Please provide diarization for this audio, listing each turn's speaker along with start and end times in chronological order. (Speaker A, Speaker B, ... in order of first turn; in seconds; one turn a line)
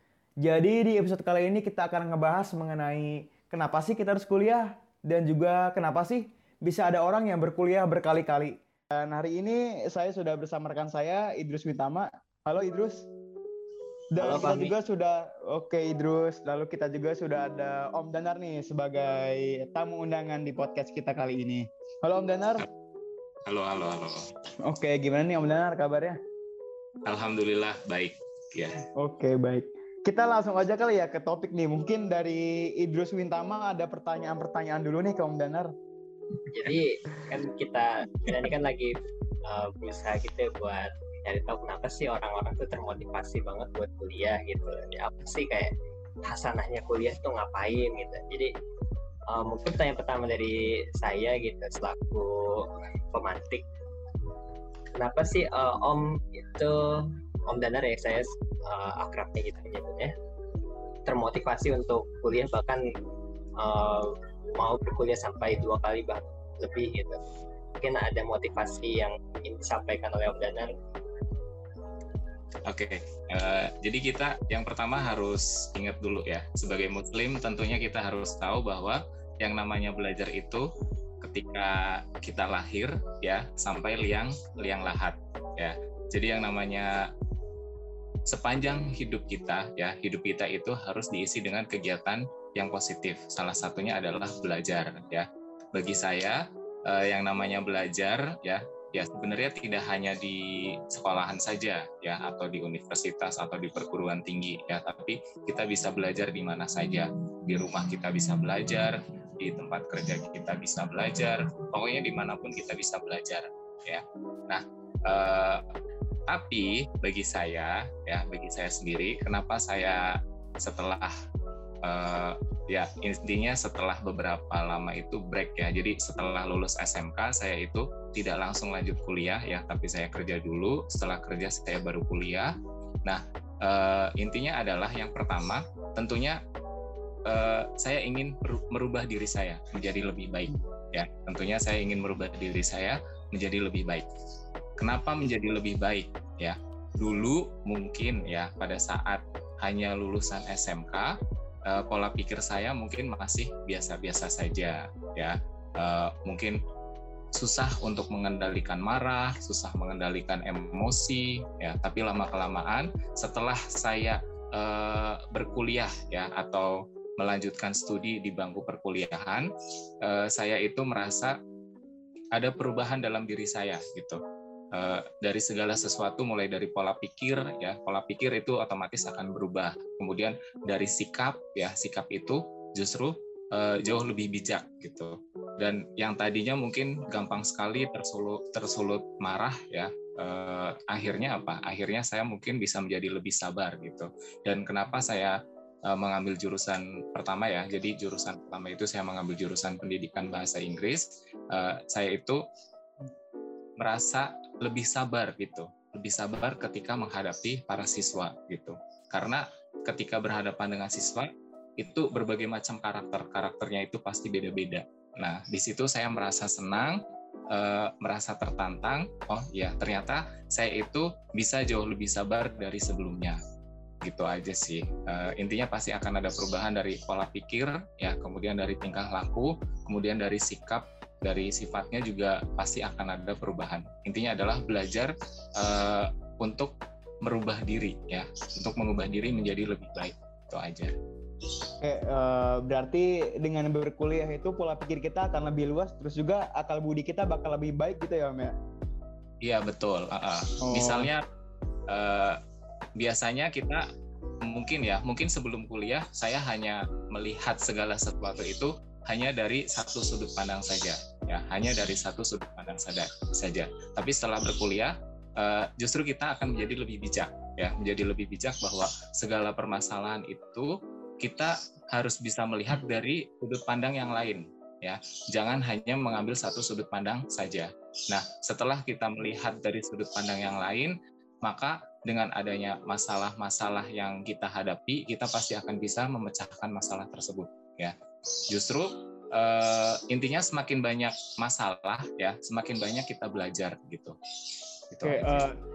Speaker A: 0.4-13.1
Speaker A: 14.2-22.7
Speaker B: 14.2-14.7
Speaker C: 23.5-24.3
Speaker A: 24.7-26.2
Speaker C: 27.1-28.8
Speaker A: 29.0-35.7
Speaker B: 36.5-45.7
Speaker B: 46.3-48.5
Speaker B: 49.3-53.6
Speaker B: 55.0-60.1
Speaker B: 61.1-62.8
Speaker B: 63.6-67.2
Speaker B: 67.8-70.7
Speaker C: 72.7-80.7
Speaker C: 81.2-87.1
Speaker C: 88.3-115.6
Speaker C: 116.3-121.1
Speaker C: 121.8-132.5
Speaker C: 133.1-136.4
Speaker C: 137.2-144.1
Speaker C: 144.8-151.2
Speaker C: 151.7-156.6
Speaker C: 157.3-169.5
Speaker C: 170.0-171.4
Speaker C: 172.3-174.2
Speaker C: 174.7-202.4
Speaker C: 203.8-223.4
Speaker C: 224.0-240.9
Speaker A: 241.8-248.5
Speaker C: 249.4-251.2
Speaker A: 250.6-251.1
Speaker C: 251.9-252.4
Speaker C: 253.0-253.9
Speaker C: 254.4-288.0
Speaker C: 288.5-294.2
Speaker C: 294.9-295.5
Speaker A: 295.0-295.6